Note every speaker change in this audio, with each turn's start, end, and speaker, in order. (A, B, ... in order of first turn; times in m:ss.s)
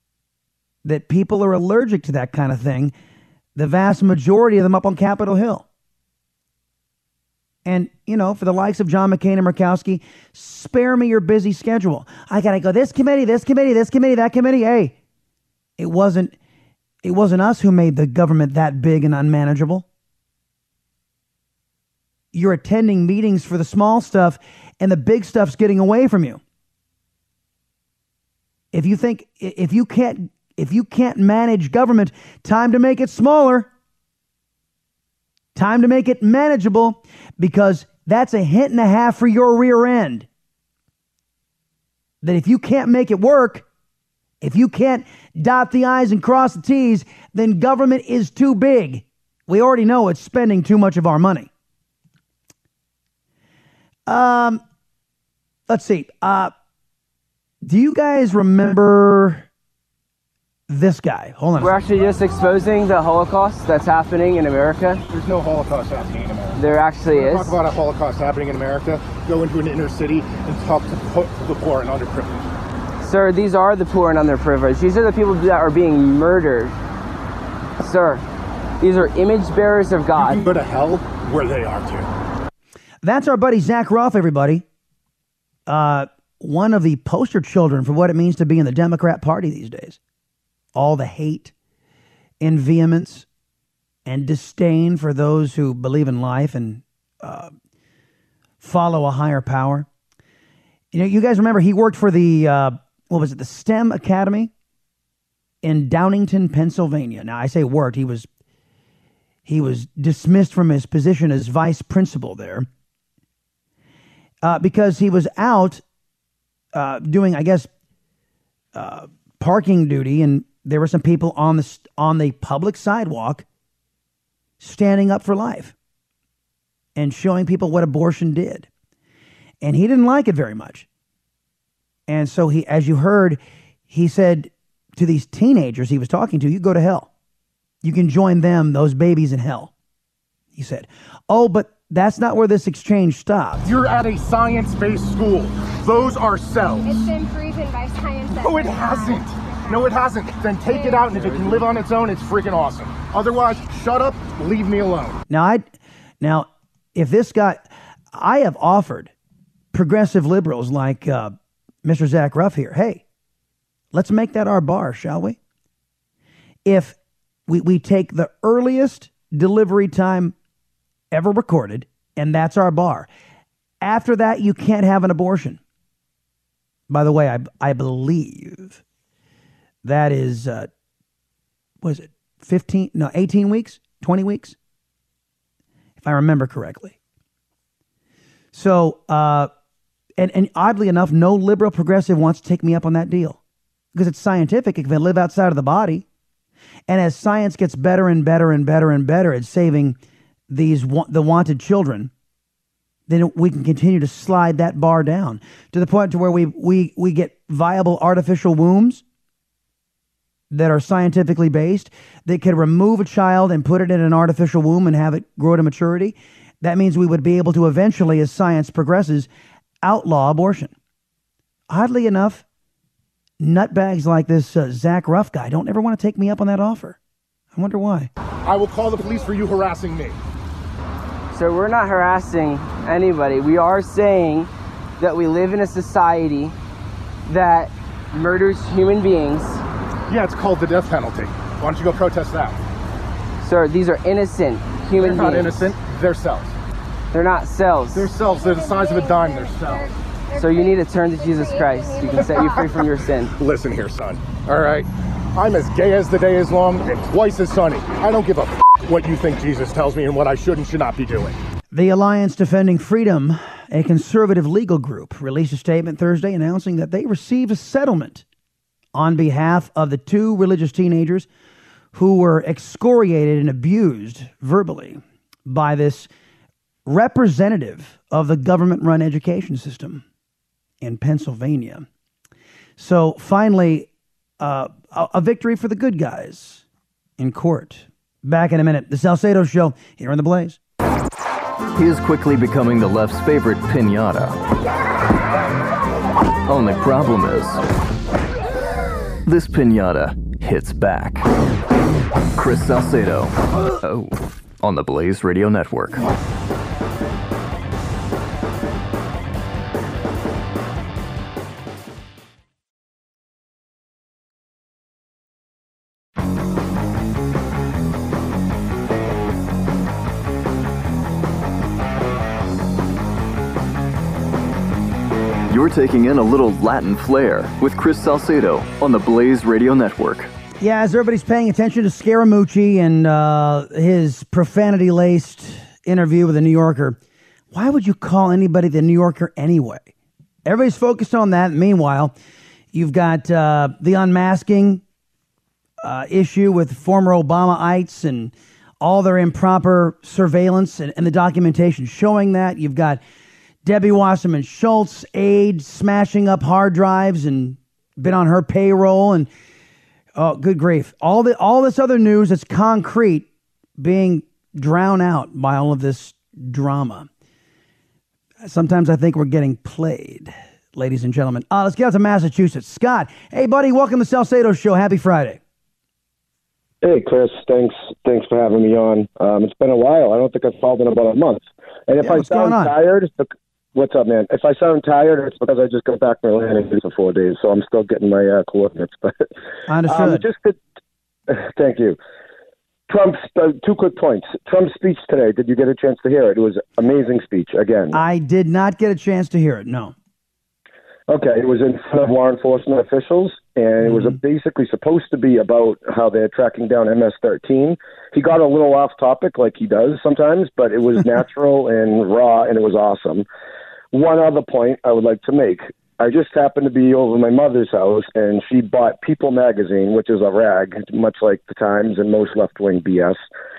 0:00.8-0:02.9 A
0:03.6-0:05.6 A
0:07.6-0:15.0 A
0:15.8-0:16.3 A
0:17.0-0:19.8 A
0:22.3-0:26.4 A
0:28.7-0:33.7 A
0:35.5-0:40.3 A
0:42.2-0:43.6 A
0:44.4-0:51.5 A
0:54.1-0:54.6 A
0:55.7-0:56.5 A
0:57.6-0:59.5 A
1:00.7-1:01.8 A
1:01.6-1:05.0 B
1:05.1-1:12.5 C
1:06.6-1:07.6 B
1:13.0-1:16.8 B
1:17.8-1:18.2 B
1:18.8-1:20.4 B
1:20.1-1:22.1 C
1:23.0-1:24.6 A
1:25.7-1:30.0 A
1:30.7-1:31.5 A
1:32.4-1:33.2 A
1:34.0-1:37.5 A
1:38.6-1:39.9 A
1:40.9-1:44.5 A
1:45.6-1:48.3 A
1:49.4-1:52.7 A
1:54.4-1:55.8 A
1:56.7-1:57.7 A
1:58.7-2:03.4 A
2:04.6-2:05.7 A
2:07.0-2:08.7 A
2:09.6-2:10.8 A
2:12.1-2:17.1 A
2:17.8-2:19.7 A
2:20.5-2:23.7 A
2:23.6-2:27.1 C
2:26.8-2:30.0 D
2:28.3-2:35.2 C
2:30.6-2:31.4 D
2:35.3-2:35.7 A
2:36.2-2:39.1 A
2:39.7-2:43.0 A
2:43.9-2:45.4 A
2:46.6-2:50.3 A
2:51.1-2:53.1 A
2:53.8-2:55.6 A
2:56.9-2:58.8 A
2:59.8-3:00.7 A
3:01.8-3:04.6 A
3:06.0-3:07.0 A
3:08.5-3:09.5 A
3:10.2-3:13.4 A
3:13.9-3:16.0 A
3:16.9-3:20.0 A
3:20.5-3:22.1 A
3:23.1-3:29.0 A
3:30.5-3:39.3 A
3:39.8-3:40.7 A
3:41.7-3:42.4 A
3:43.4-3:47.0 A
3:47.5-3:48.1 A
3:48.4-3:50.2 C
3:51.3-3:56.5 B
3:57.3-3:59.6 B
4:00.1-4:02.6 C
4:03.4-4:05.7 B
4:04.9-4:06.5 C
4:07.1-4:08.1 B
4:07.9-4:09.9 C
4:08.2-4:12.8 D
4:10.3-4:13.3 B
4:12.2-4:12.5 C
4:13.4-4:21.4 C
4:21.7-4:28.2 A
4:28.9-4:31.3 A
4:31.9-4:36.1 A
4:36.8-4:40.0 A
4:40.8-4:41.9 A
4:42.8-4:43.9 A
4:44.4-4:46.6 A
4:47.2-4:50.6 A
4:51.7-4:54.4 E
4:56.4-4:57.6 E
4:59.2-5:01.3 E
5:02.4-5:06.1 E
5:25.5-5:30.3 E
5:30.6-5:37.0 A
5:37.5-5:39.9 A
5:40.4-5:42.1 A
5:42.7-5:44.8 A
5:45.8-5:53.0 A
5:53.6-5:59.3 A
6:00.2-6:03.2 A
6:03.8-6:07.1 A
6:08.4-6:15.4 A
6:16.8-6:29.2 F
6:22.0-6:22.7 A
6:29.7-6:30.2 A
6:29.8-6:30.6 F
6:31.3-6:32.0 F
6:32.9-6:38.0 F
6:37.9-6:39.9 A
6:41.1-6:53.2 F
6:53.9-7:03.2 F